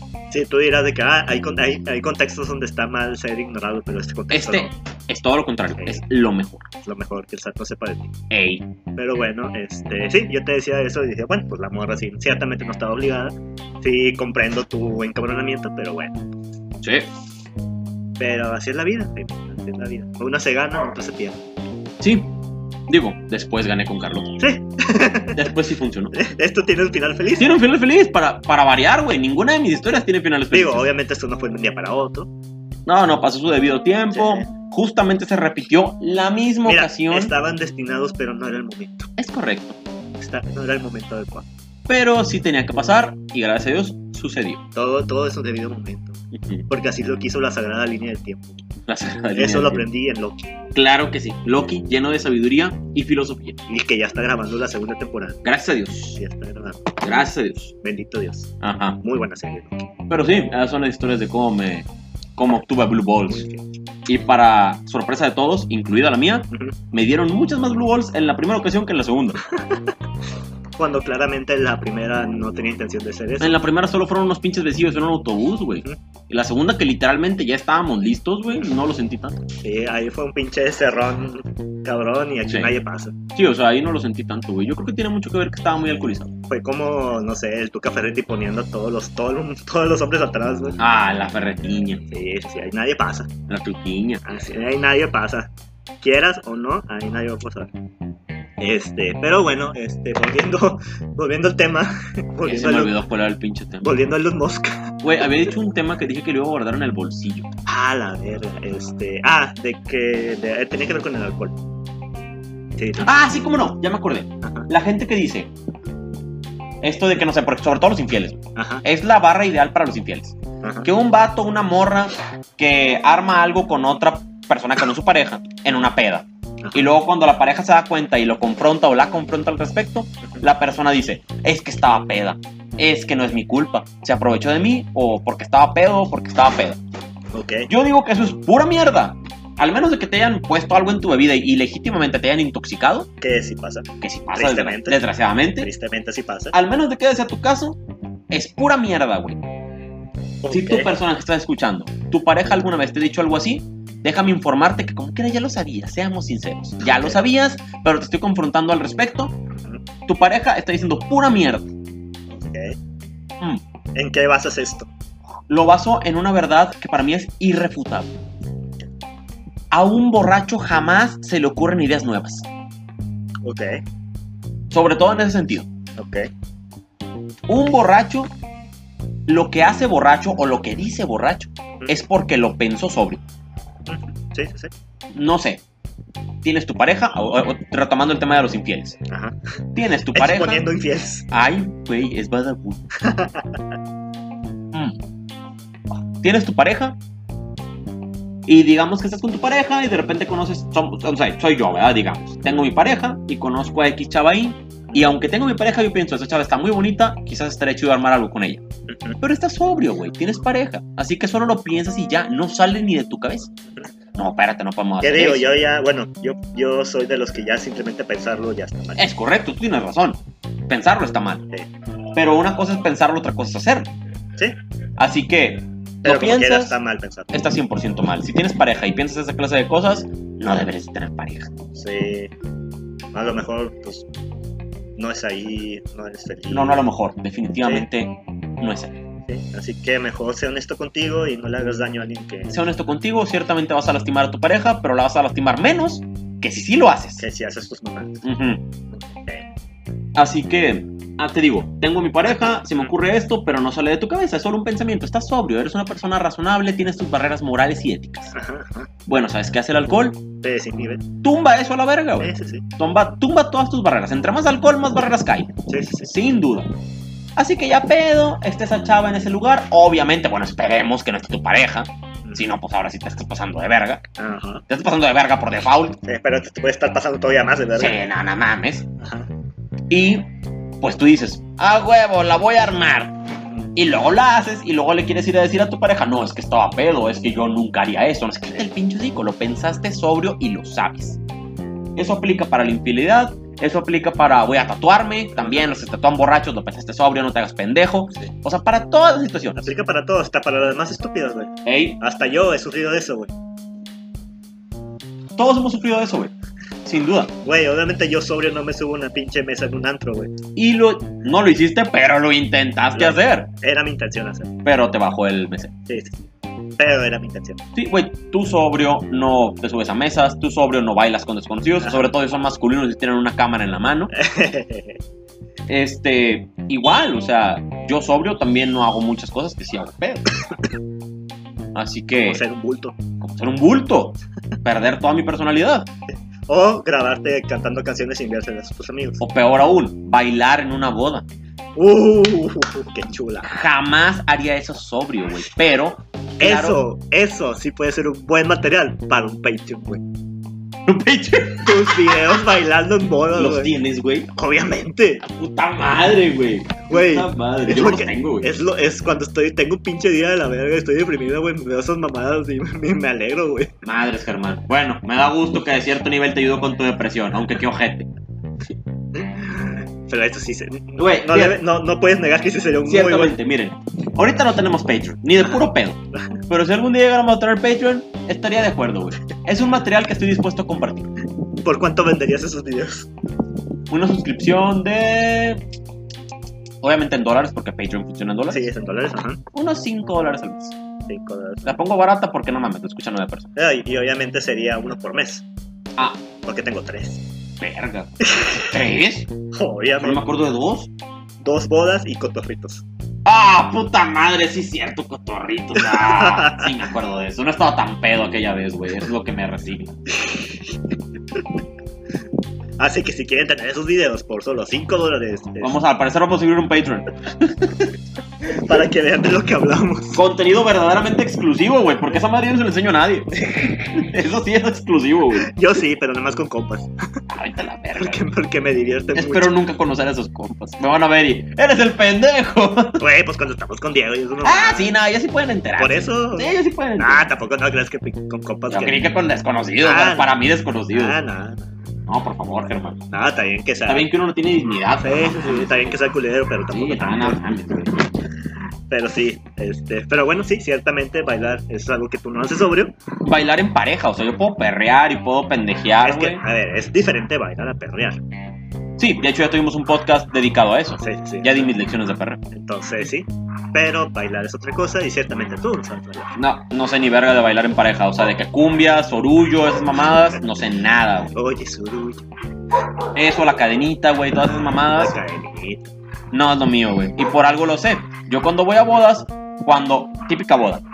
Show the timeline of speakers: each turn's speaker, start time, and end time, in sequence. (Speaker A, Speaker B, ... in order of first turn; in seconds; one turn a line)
Speaker A: 0.3-4.7
Speaker B: 4.3-6.6
Speaker A: 6.8-8.1
Speaker B: 8.3-8.7
Speaker A: 8.9-16.2
Speaker B: 16.8-17.1
Speaker A: 18.2-21.4
Speaker B: 22.0-22.3
Speaker B: 22.9-24.3
Speaker A: 24.4-25.4
Speaker B: 25.3-26.1
Speaker A: 26.1-27.6
Speaker B: 27.4-30.9
Speaker A: 30.5-32.3
Speaker B: 32.9-37.3
Speaker A: 34.1-34.5
Speaker A: 36.6-39.1
Speaker B: 39.2-39.8
Speaker A: 40.2-41.5
Speaker B: 41.9-44.6
Speaker A: 44.7-48.6
Speaker B: 46.3-46.6
Speaker B: 48.9-49.9
Speaker A: 49.4-50.4
Speaker B: 50.7-53.6
Speaker A: 53.7-55.4
Speaker B: 55.4-56.2
Speaker A: 56.1-57.0
Speaker B: 57.0-57.7
Speaker A: 57.8-59.9
Speaker B: 58.6-59.0
Speaker B: 60.1-63.5
Speaker A: 63.3-63.6
Speaker B: 64.0-69.4
Speaker A: 70.8-73.6
Speaker B: 73.4-79.4
Speaker A: 79.6-83.2
Speaker B: 82.5-82.7
Speaker B: 83.3-86.3
Speaker A: 86.5-90.8
Speaker B: 90.8-92.0
Speaker A: 92.1-93.3
Speaker B: 93.5-94.3
Speaker A: 94.2-95.5
Speaker A: 96.0-97.7
Speaker A: 98.6-103.0
Speaker B: 102.4-104.0
Speaker A: 103.8-104.9
Speaker B: 105.0-107.5
Speaker A: 107.7-111.5
Speaker A: 112.8-113.3
Speaker B: 113.0-115.5
Speaker A: 114.4-114.7
Speaker B: 116.8-136.8
Speaker A: 118.5-118.8
Speaker A: 120.6-120.9
Speaker A: 126.6-126.9
Speaker A: 137.3-137.7
Speaker B: 137.7-143.1
Speaker A: 143.2-145.0
Speaker B: 144.0-145.7
Speaker A: 145.6-146.5
Speaker B: 146.5-147.8
Speaker B: 148.3-149.4
Speaker A: 150.4-150.9
Speaker B: 150.5-159.3
Speaker A: 156.8-157.2
Speaker A: 159.6-159.8
Speaker B: 160.1-161.7
Speaker A: 162.3-162.8
Speaker A: 163.9-164.9
Speaker B: 165.5-168.2
Speaker B: 169.7-172.5
Speaker A: 173.4-173.8
Speaker B: 174.7-175.7
Speaker A: 175.9-176.3
Speaker B: 177.5-178.3
Speaker B: 179.3-183.2
Speaker A: 183.9-184.7
Speaker B: 185.1-185.6
Speaker B: 186.4-189.0
Speaker A: 189.1-189.4
Speaker B: 189.7-190.7
Speaker A: 190.1-191.3
Speaker B: 191.3-192.8
Speaker A: 193.0-193.6
Speaker B: 194.7-195.0
Speaker B: 196.2-197.0
Speaker B: 198.4-208.6
Speaker A: 208.9-209.2
Speaker B: 209.2-213.5
Speaker B: 214.1-215.5
Speaker A: 215.0-219.1
Speaker B: 219.0-221.4
Speaker B: 222.1-223.9
Speaker B: 225.0-226.8
Speaker A: 226.0-227.4
Speaker B: 227.3-231.5
Speaker A: 231.7-232.3
Speaker A: 233.1-234.1
Speaker A: 235.0-236.8
Speaker B: 236.5-239.0
Speaker A: 239.3-242.6
Speaker B: 242.5-247.2
Speaker A: 247.2-248.2
Speaker B: 248.2-248.6
Speaker A: 248.9-249.4
Speaker B: 250.2-258.3
Speaker A: 258.3-258.9
Speaker B: 259.1-260.2
Speaker A: 260.4-261.0
Speaker B: 261.2-266.7
Speaker A: 262.2-262.6
Speaker A: 265.7-266.1
Speaker B: 267.4-274.0
Speaker A: 274.2-274.6
Speaker B: 274.7-276.0
Speaker A: 276.0-278.0
Speaker B: 277.8-278.9
Speaker A: 279.0-279.3
Speaker B: 279.9-280.3
Speaker B: 280.8-283.1
Speaker B: 283.8-291.2
Speaker B: 291.9-299.7
Speaker A: 295.4-295.7
Speaker A: 299.6-303.3
Speaker B: 301.6-302.0
Speaker B: 305.4-306.3
Speaker B: 306.8-307.3
Speaker A: 307.4-310.3
Speaker B: 310.6-313.5
Speaker A: 312.9-314.5
Speaker B: 314.6-315.7
Speaker A: 315.9-316.2
Speaker A: 316.8-317.6
Speaker B: 317.7-324.1
Speaker A: 321.8-322.1
Speaker A: 324.1-325.0
Speaker B: 325.7-330.3
Speaker B: 331.7-332.4
Speaker A: 332.2-333.0
Speaker B: 333.2-335.9
Speaker A: 336.5-339.2
Speaker B: 339.2-341.2
Speaker A: 341.8-343.6
Speaker B: 343.4-346.8
Speaker A: 346.4-350.0
Speaker B: 350.9-352.4
Speaker A: 351.6-353.7
Speaker B: 353.3-354.3
Speaker A: 354.3-355.2
Speaker B: 355.2-358.5
Speaker A: 356.9-363.7
Speaker B: 363.8-368.1
Speaker A: 369.1-373.4
Speaker B: 371.0-371.6
Speaker B: 372.9-381.1
Speaker A: 381.6-383.1
Speaker B: 383.9-385.6
Speaker B: 386.8-388.7
Speaker A: 388.5-389.4
Speaker B: 389.5-390.7
Speaker A: 391.1-391.8
Speaker B: 391.6-393.5
Speaker A: 393.6-395.4
Speaker A: 396.4-397.2
Speaker B: 397.6-399.3
Speaker A: 398.3-398.7
Speaker A: 399.5-400.2
Speaker B: 400.0-400.9
Speaker A: 401.4-402.8
Speaker B: 403.2-409.9
Speaker A: 405.8-406.7
Speaker A: 410.1-410.7
Speaker A: 412.8-415.8
Speaker B: 415.6-417.9
Speaker A: 418.4-420.2
Speaker B: 420.1-425.5
Speaker A: 423.5-423.7
Speaker A: 425.4-426.9
Speaker B: 427.3-428.3
Speaker A: 427.9-429.6
Speaker B: 429.1-433.0
Speaker A: 433.0-434.9
Speaker B: 434.4-437.3
Speaker A: 435.8-439.1
Speaker B: 438.7-441.2
Speaker A: 439.8-440.3
Speaker A: 440.9-441.8
Speaker B: 442.1-443.0
Speaker A: 443.1-444.1
Speaker B: 443.9-446.1
Speaker A: 445.0-447.8
Speaker B: 446.7-448.1
Speaker A: 448.9-452.9
Speaker B: 453.2-456.4
Speaker A: 456.0-458.2
Speaker B: 459.0-462.4
Speaker A: 461.0-461.7
Speaker A: 462.5-466.4
Speaker B: 466.4-471.3
Speaker A: 471.3-472.2
Speaker B: 473.1-475.2
Speaker A: 474.9-475.9
Speaker B: 476.3-480.8